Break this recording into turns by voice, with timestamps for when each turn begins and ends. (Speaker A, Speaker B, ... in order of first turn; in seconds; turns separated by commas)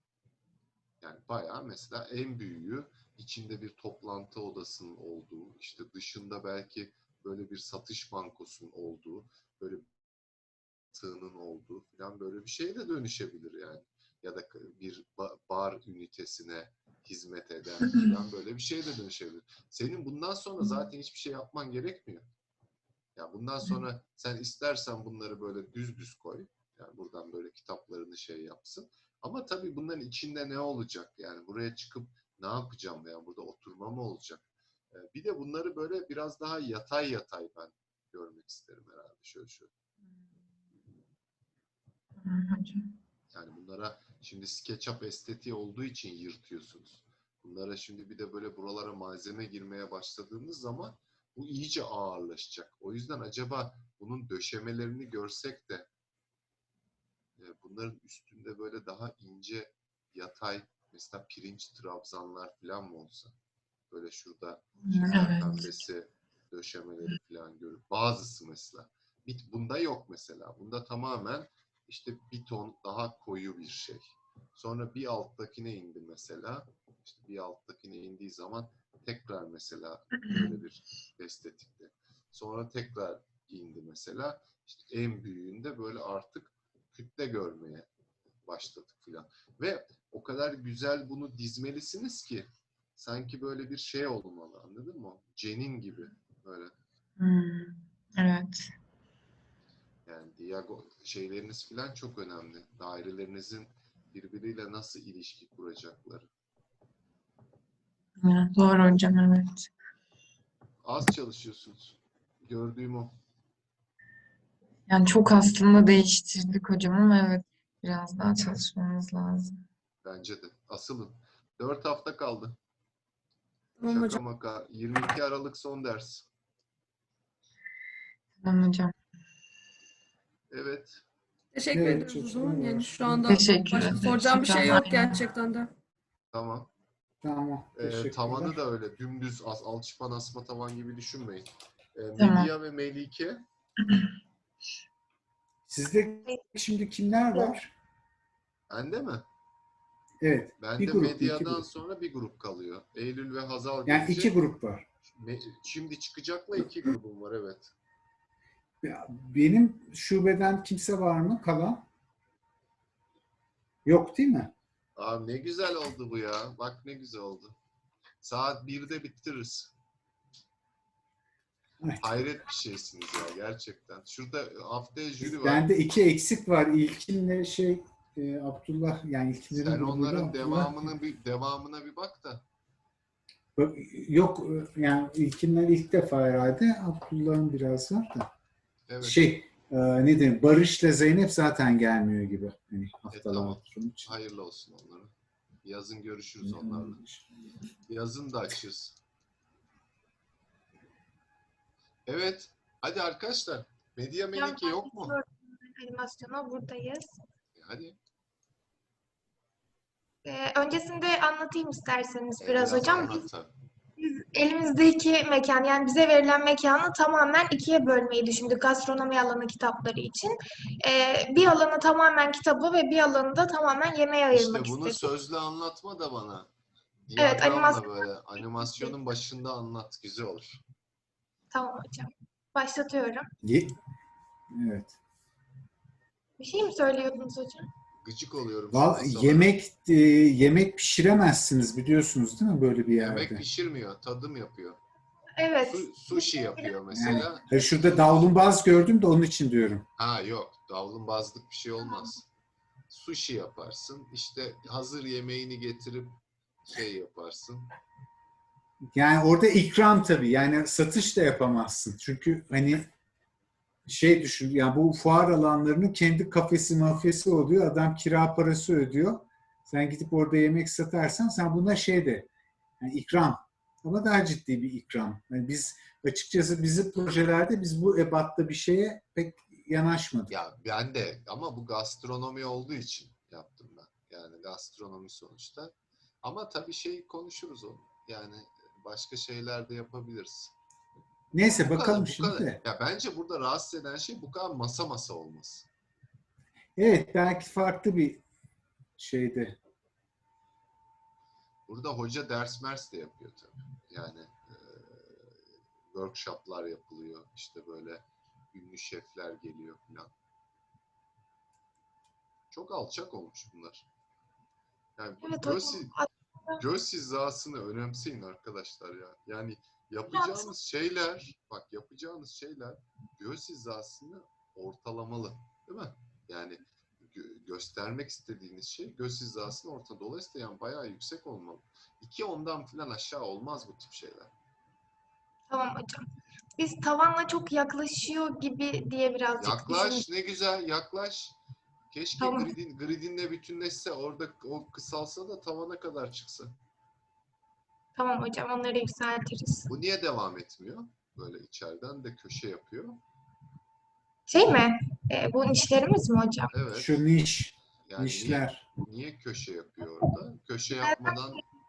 Speaker A: 1.0-10.0, Speaker A: 10.9-22.3, Speaker A: 23.1-39.7, Speaker B: 42.2-42.9, Speaker A: 43.3-55.9, Speaker A: 57.4-63.4, Speaker A: 63.9-87.9, Speaker B: 64.8-65.7, Speaker A: 88.5-96.7, Speaker B: 97.2-98.7, Speaker A: 100.1-106.3, Speaker B: 108.2-109.7, Speaker A: 110.8-113.2, Speaker B: 114.9-119.7, Speaker A: 120.0-122.6, Speaker C: 123.8-124.2, Speaker A: 123.9-126.3, Speaker B: 128.4-128.9, Speaker A: 130.5-131.0, Speaker C: 131.5-135.7, Speaker D: 131.7-133.3, Speaker B: 133.3-135.2, Speaker A: 136.3-136.7, Speaker D: 137.2-138.6, Speaker A: 137.8-143.4, Speaker B: 142.2-142.5, Speaker D: 145.7-147.7, Speaker A: 148.7-149.3, Speaker D: 150.2-151.7, Speaker A: 150.6-154.4, Speaker D: 153.9-154.9, Speaker A: 155.1-157.7, Speaker D: 158.8-161.8, Speaker D: 163.8-164.5, Speaker A: 165.0-167.6, Speaker A: 168.2-169.7, Speaker D: 171.8-172.1, Speaker A: 172.0-175.7, Speaker D: 175.2-180.9, Speaker A: 179.5-182.4, Speaker D: 183.6-188.3, Speaker A: 188.9-189.3, Speaker D: 189.0-194.1, Speaker A: 193.1-195.1, Speaker A: 195.6-197.0, Speaker D: 196.4-197.2, Speaker A: 197.9-199.0, Speaker A: 202.1-205.2, Speaker E: 204.3-207.1, Speaker A: 207.6-208.0, Speaker E: 210.2-213.2, Speaker A: 212.4-213.5, Speaker E: 214.0-225.0, Speaker A: 224.3-226.5, Speaker A: 227.0-230.6, Speaker E: 227.2-228.0, Speaker E: 231.5-233.3, Speaker D: 233.4-233.7, Speaker D: 234.5-235.0, Speaker E: 236.4-237.7, Speaker A: 238.0-239.6, Speaker D: 238.7-243.4, Speaker A: 243.0-244.8, Speaker E: 245.4-246.7, Speaker A: 245.7-247.5, Speaker D: 246.9-249.9, Speaker A: 250.0-252.3, Speaker A: 252.9-257.7, Speaker D: 258.9-262.9, Speaker D: 263.9-272.3, Speaker D: 272.8-280.3, Speaker A: 280.3-290.5, Speaker D: 291.3-292.6, Speaker A: 291.6-295.7, Speaker D: 296.8-298.2, Speaker D: 299.0-299.6, Speaker A: 301.7-305.4, Speaker A: 305.9-310.1, Speaker A: 312.5-313.9, Speaker A: 315.0-315.9, Speaker E: 315.2-316.6, Speaker A: 316.6-334.3, Speaker E: 320.1-320.5, Speaker E: 335.5-340.1, Speaker A: 339.4-341.4, Speaker A: 341.9-346.6, Speaker E: 342.2-342.5, Speaker E: 348.0-349.7, Speaker A: 349.7-353.0, Speaker E: 354.3-356.5, Speaker A: 356.5-357.0, Speaker D: 356.7-358.7, Speaker A: 357.9-361.4, Speaker E: 360.8-361.3